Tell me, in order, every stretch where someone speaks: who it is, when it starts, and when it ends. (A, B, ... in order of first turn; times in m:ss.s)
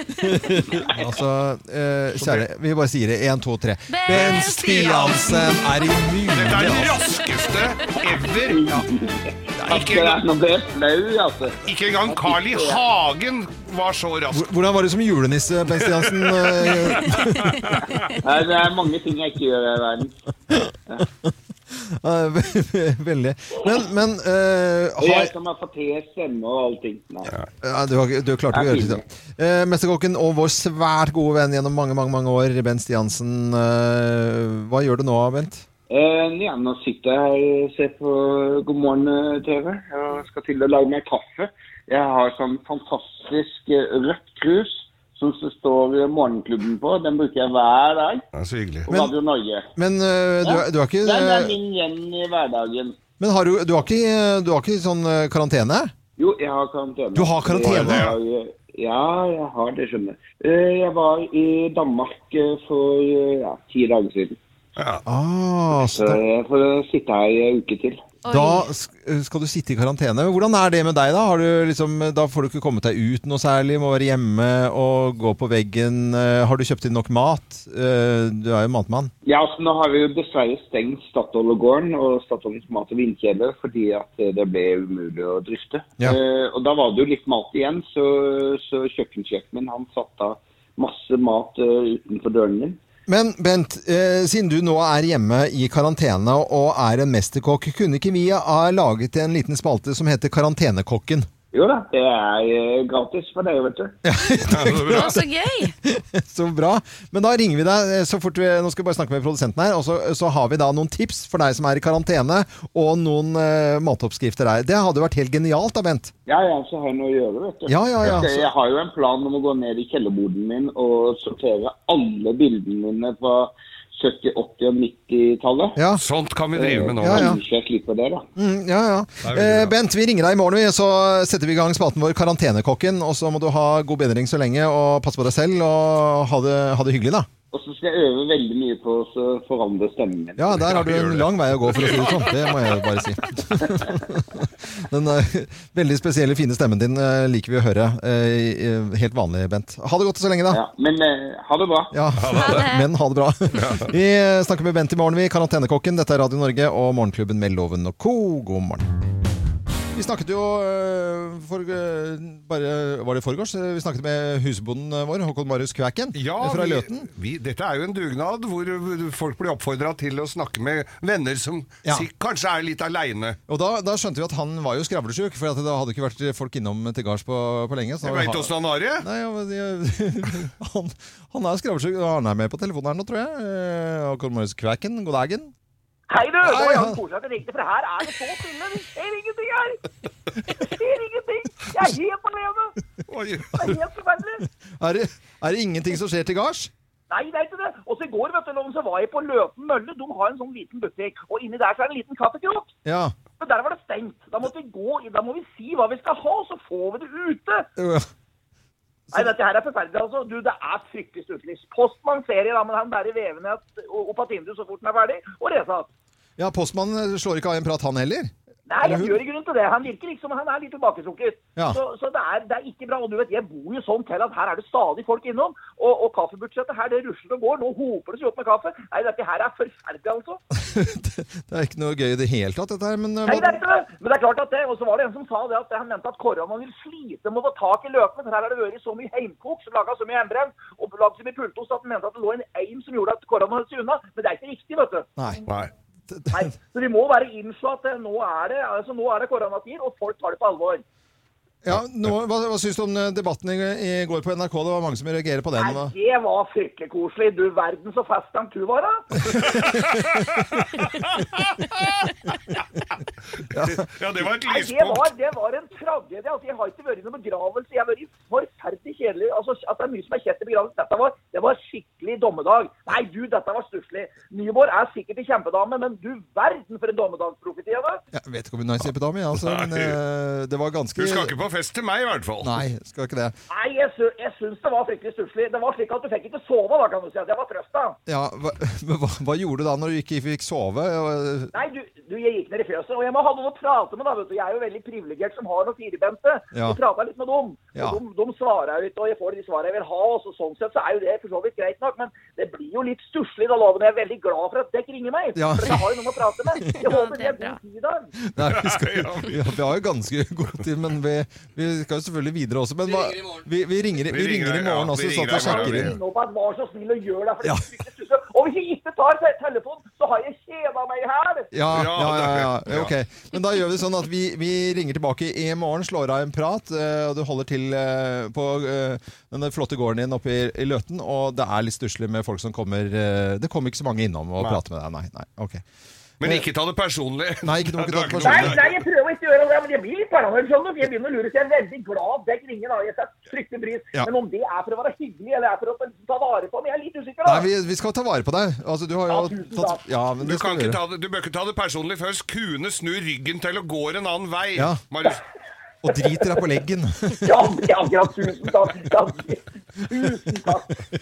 0:00.2-0:07.1 A
0:02.2-0:02.4 B
0:03.9-0:05.8 C
0:04.1-0:04.4 B
0:06.3-0:08.7 B
0:08.4-0:12.8 D
0:09.6-0:09.9 A
0:09.6-0:10.2 B
0:11.6-0:14.5 B
0:14.3-0:17.6 A
0:15.7-0:18.1 B
0:17.3-0:17.6 C
0:18.2-0:20.2 D
0:20.5-0:25.3 A
0:25.0-0:27.3 D
0:27.6-0:35.6 A
0:28.5-0:29.0 D
0:35.9-0:48.2 D
0:48.3-0:48.9 B
0:48.9-0:49.7 D
0:48.9-0:49.1 A
0:49.7-0:51.6 A
0:50.4-0:53.0 D
0:53.2-0:55.9 A
0:56.2-1:04.4 D
0:57.1-0:58.1 A
0:57.6-0:58.2 B
1:04.8-1:05.0 B
1:05.0-1:06.2 A
1:05.7-1:08.0 D
1:08.2-1:08.7 C
1:08.3-1:19.1 A
1:19.2-1:32.8 D
1:33.1-1:41.3 A
1:41.5-1:44.0 D
1:44.0-1:45.2 A
1:44.4-1:45.2 B
1:44.7-1:45.8 C
1:45.8-1:56.1 A
1:56.3-2:05.8 D
1:57.7-1:58.4 A
2:05.8-2:06.0 A
2:06.0-2:07.3 B
2:06.5-2:08.3 D
2:07.0-2:07.4 A
2:08.4-2:17.3 A
2:09.2-2:09.7 B
2:17.5-2:20.7 D
2:20.4-2:30.6 A
2:20.5-2:22.9 B
2:30.5-2:31.9 D
2:31.9-2:38.9 A
2:32.2-2:32.6 B
2:32.3-2:32.9 C
2:33.5-2:33.9 B
2:39.9-2:47.1 A
2:46.1-2:53.4 B
2:53.5-3:05.5 A
2:58.0-2:59.0 B
3:06.1-3:09.8 E
3:06.4-3:07.0 A
3:10.5-3:12.8 E
3:13.1-3:13.7 B
3:13.5-3:14.4 E
3:14.8-3:16.7 A
3:17.1-3:22.7 E
3:22.8-3:23.1 A
3:23.4-3:27.7 E
3:27.8-3:28.1 A
3:29.1-3:35.9 E
3:36.4-3:39.2 A
3:38.7-3:50.4 E
3:50.5-3:53.6 A
3:53.2-4:05.1 E
4:05.2-4:05.4 A
4:06.1-4:06.5 A
4:06.3-4:10.8 E
4:11.6-4:15.9 A
4:15.6-4:19.5 E
4:19.3-4:19.8 A
4:19.4-4:22.2 B
4:23.4-4:25.1 B
4:23.5-4:23.9 A
4:24.4-4:38.0 E
4:38.1-4:41.3 A
4:39.3-4:40.0 B
4:41.0-4:42.6 B
4:42.4-4:43.4 A
4:43.5-4:48.0 E
4:48.1-4:51.5 A
4:51.5-5:08.1 E
4:56.5-4:56.8 A
5:05.4-5:06.0 A
5:06.7-5:07.6 C
5:08.2-5:16.0 A
5:08.4-5:09.5 B
5:14.1-5:16.0 B
5:15.3-5:21.5 E
5:17.4-5:17.7 A
5:21.5-5:35.6 A
5:21.7-5:22.9 B
5:36.2-5:38.7 B
5:37.4-5:38.7 A
5:38.2-5:47.4 E
5:47.2-5:50.8 A
5:49.1-5:49.8 E
5:50.2-5:55.2 B
5:54.6-5:54.8 A
5:55.8-5:57.6 A
5:57.2-6:00.8 E